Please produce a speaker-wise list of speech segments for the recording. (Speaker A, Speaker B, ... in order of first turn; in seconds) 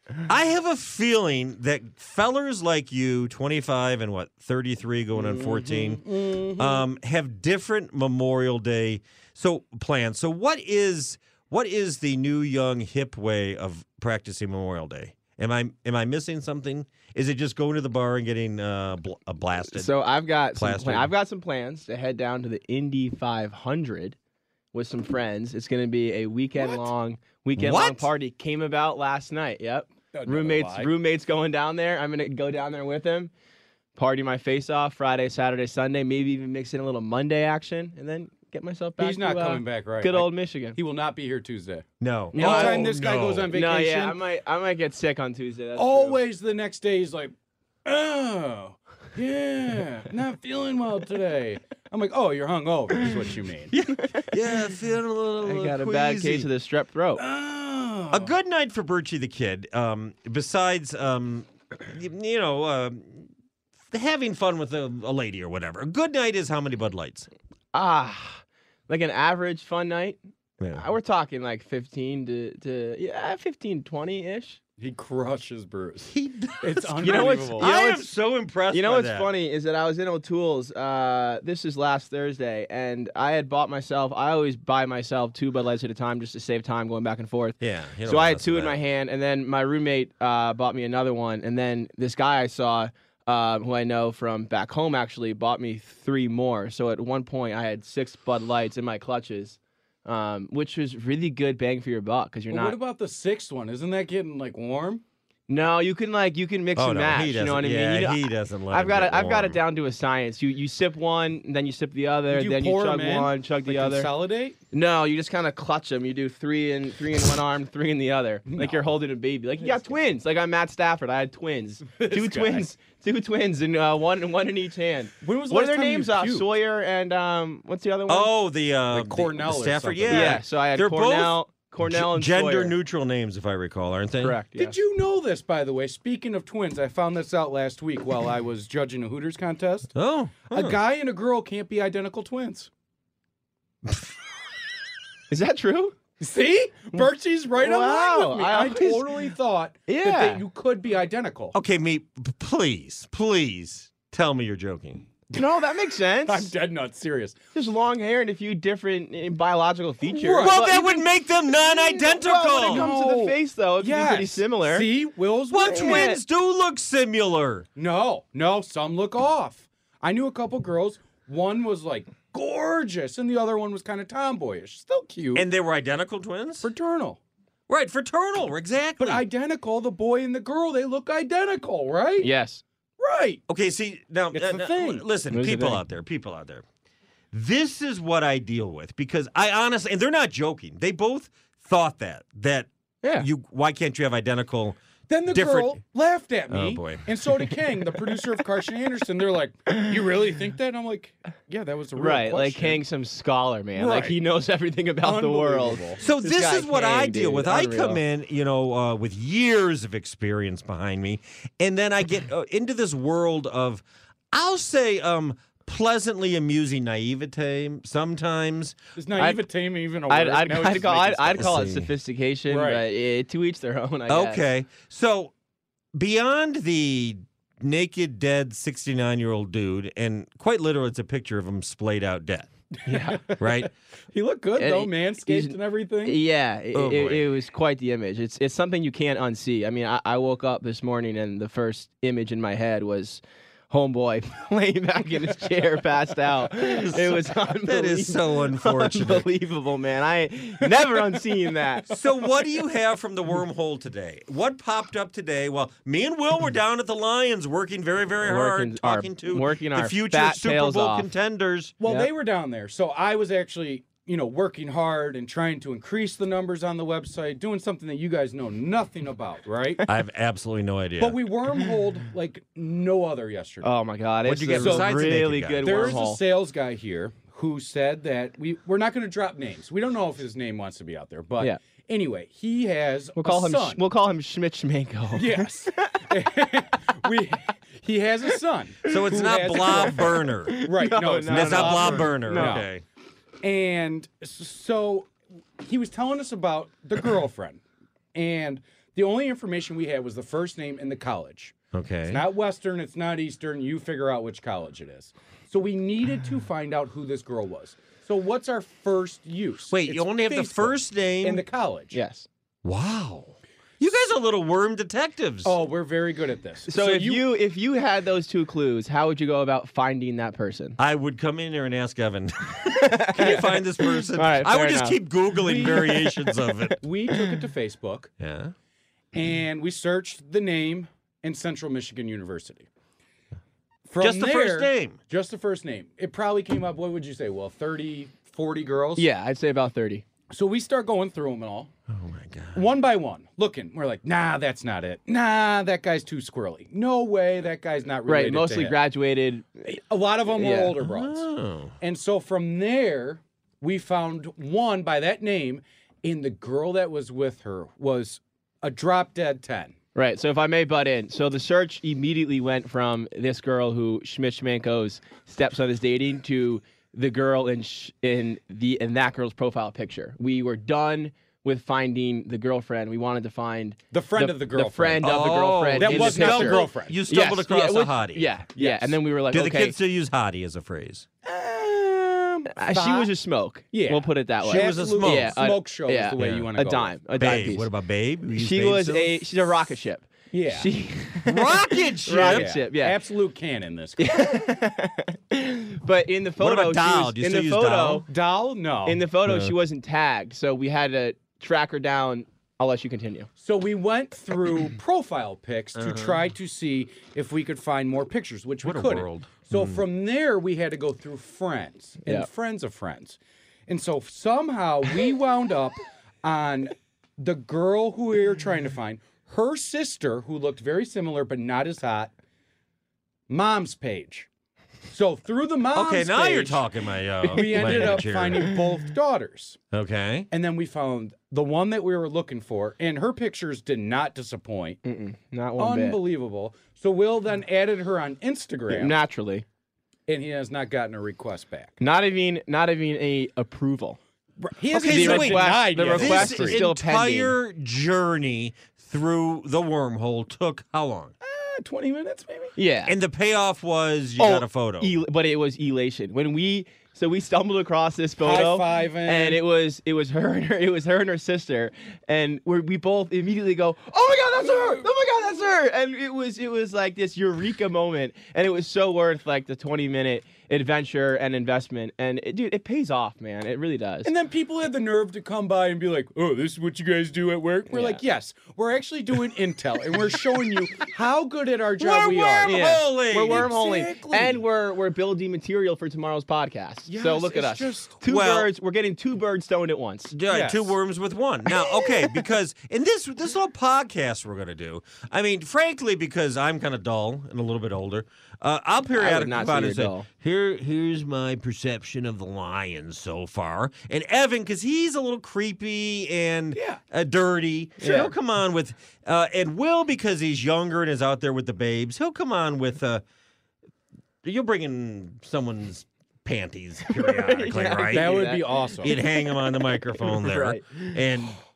Speaker A: 0.3-6.0, 6.6-20.0, 20.6-21.1, 27.6-28.1, 42.0-43.5, 53.7-56.5, 58.1-63.3, 63.9-67.3, 70.6-70.9, 76.1-79.3, 87.6-88.8, 106.8-109.6, 128.1-134.4, 139.9-140.8, 151.5-155.1, 160.4-162.9, 165.5-167.7, 175.3-176.7, 177.7-179.2, 183.5-186.6, 187.3-194.8, 195.3-195.8, 196.5-197.1, 206.0-218.8, 221.4-221.9, 224.1-225.3, 225.9-232.5, 233.4-233.7, 236.7-237.3, 246.6-249.3, 251.9-261.8, 269.9-271.2, 274.2-275.9, 288.9-290.6, 291.2-292.8, 301.7-302.2, 309.7-311.4, 312.6-315.6, 320.8-326.8, 328.2-328.5, 334.0-335.0, 341.9-342.6, 350.8-351.7, 375.0-378.3, 379.3-381.1, 384.4-385.4, 386.2-386.5, 387.2-389.2, 391.3-392.5, 396.4-398.0, 399.2-399.5, 405.8-406.2, 408.6-409.8, 425.7-428.5, 429.7-430.3, 444.7-451.1, 452.9-454.9, 481.8-483.5, 488.1-488.5, 490.1-513.0, 514.2-521.4
Speaker B: 5.1-6.8, 26.6-26.9, 30.1-30.9, 39.0-44.2, 45.8-47.3, 47.9-53.7, 57.2-58.3, 74.8-77.7, 102.5-105.0, 112.3-114.6, 118.5-118.9, 119.6-120.0, 122.0-122.7, 125.2-126.5, 128.9-130.4, 134.6-139.9, 140.5-142.7, 146.2-151.6, 156.3-157.4, 160.1-161.0, 162.7-166.1, 167.8-175.4, 176.6-177.2, 179.0-182.3, 183.0-183.4, 184.3-185.1, 195.1-202.8, 203.8-204.2, 205.0-206.1, 219.0-221.7, 222.5-222.8, 232.9-233.5, 234.1-236.2, 261.8-269.9, 271.0-273.7, 274.6-274.9, 275.6-283.8, 285.1-292.7, 293.4-297.6, 298.1-301.6, 302.1-312.0, 315.4-317.3, 323.2-323.6, 325.4-326.1, 326.8-328.1, 329.1-332.7, 333.9-339.1, 340.3-341.7, 342.5-348.8, 349.7-351.3, 351.8-359.8, 373.9-375.2, 375.8-377.0, 378.6-378.9, 381.3-383.1, 383.7-386.9, 390.3-390.7, 392.1-394.5, 398.1-399.0, 403.4-413.2, 413.7-422.1, 423.3-424.3, 424.9-426.7, 427.2-429.6, 430.3-434.8, 435.6-439.0, 440.1-441.8, 444.4-446.6, 451.2-452.5, 458.2-459.4, 474.0-484.4, 486.9-488.1, 490.3-490.8, 506.5-506.8, 517.9-518.9
Speaker C: 19.7-24.2, 24.7-33.3, 34.0-40.8, 42.3-43.0, 43.5-46.2, 54.0-54.3, 55.4-57.2, 67.7-70.2, 70.7-74.6, 77.0-78.1, 78.7-102.8, 105.5-114.1, 114.7-128.3, 130.1-132.8, 134.2-134.8, 145.3-146.0, 147.6-149.1, 149.9-150.4, 155.3-156.5, 157.5-161.0, 161.8-164.9, 165.6-166.2, 182.2-182.6, 185.3-185.8, 193.0-193.3, 202.0-208.0, 220.1-224.4, 232.9-233.2, 234.6-251.9, 258.2-261.1, 261.9-262.1, 273.6-276.2, 283.2-286.1, 289.6-292.6, 311.9-312.3, 316.7-320.8, 322.7-325.0, 339.0-340.1, 348.1-349.7, 350.4-350.7, 359.9-379.8, 382.5-387.7, 388.4-393.0, 394.0-398.1, 398.9-403.3, 427.5-427.8, 434.8-436.0, 438.7-439.4, 441.8-444.0, 444.8-447.3, 452.6-453.0, 454.2-474.1, 477.7-478.0, 482.4-490.1, 498.9-500.1, 507.8-508.1, 516.9-519.0, 520.0-521.0